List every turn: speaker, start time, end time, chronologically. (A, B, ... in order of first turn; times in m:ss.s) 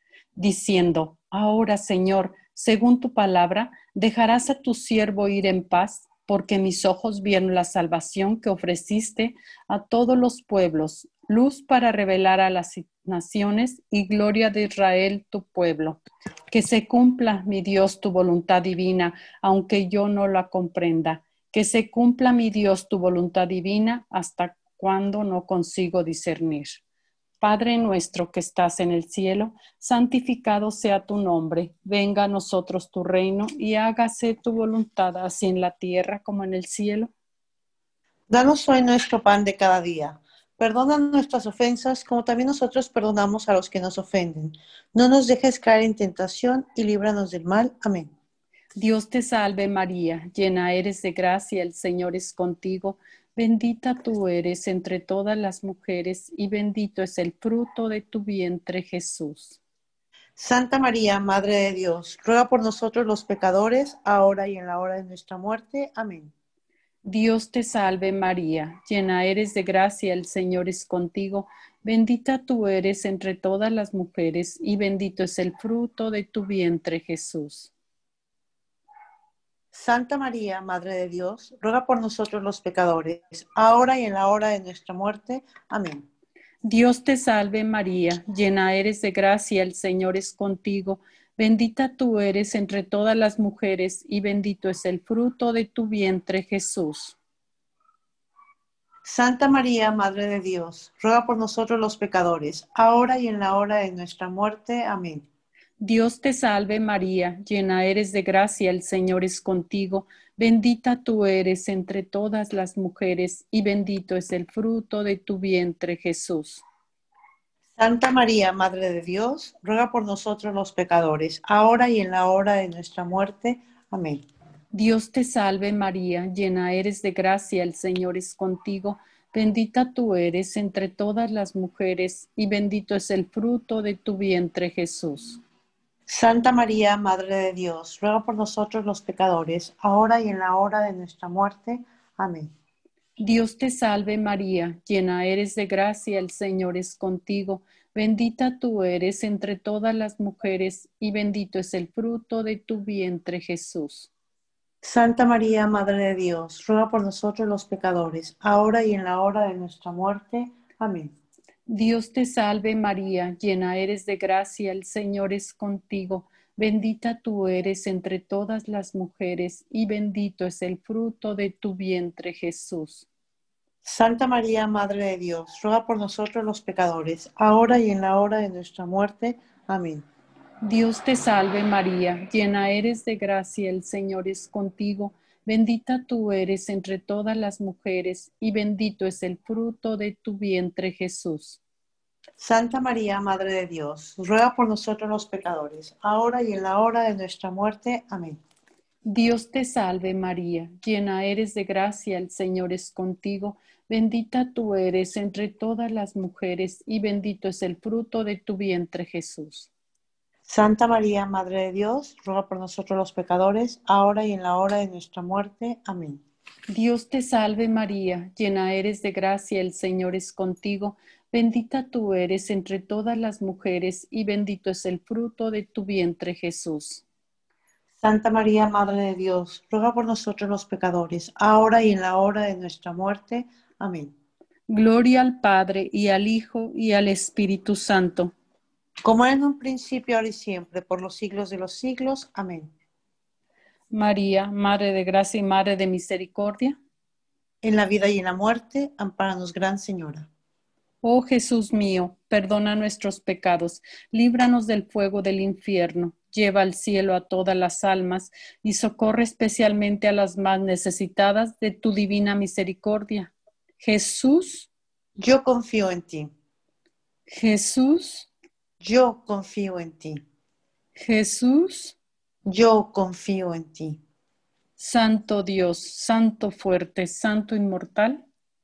0:00.4-0:16.0 A
0:16.5-0:26.8 A
0:27.4-0:37.1 A
0:38.3-0:48.1 B
0:48.8-0:59.6 A
1:00.4-1:06.3 B
1:07.0-1:17.7 A
1:19.7-1:26.1 B
1:26.6-1:37.2 A
1:39.1-1:45.3 B
1:45.8-1:56.6 A
1:57.8-2:04.2 B
2:04.7-2:15.4 A
2:16.1-2:22.5 B
2:23.2-2:34.1 A
2:34.8-2:41.1 B
2:41.7-2:53.1 A
2:53.8-3:00.1 B
3:00.6-3:11.6 A
3:12.4-3:18.4 B
3:19.1-3:29.7 A
3:30.5-3:36.2 B
3:36.7-3:47.0 A
3:48.0-3:54.1 B
3:54.7-3:58.3 A
3:59.0-4:02.7 B
4:03.9-4:06.8 A
4:07.6-4:10.3 B
4:11.0-4:24.7 A
4:25.2-4:26.3 B
4:27.3-4:28.3 A
4:28.8-4:30.2 B
4:31.0-4:32.0 A
4:32.5-4:34.0 B
4:34.8-4:38.2 A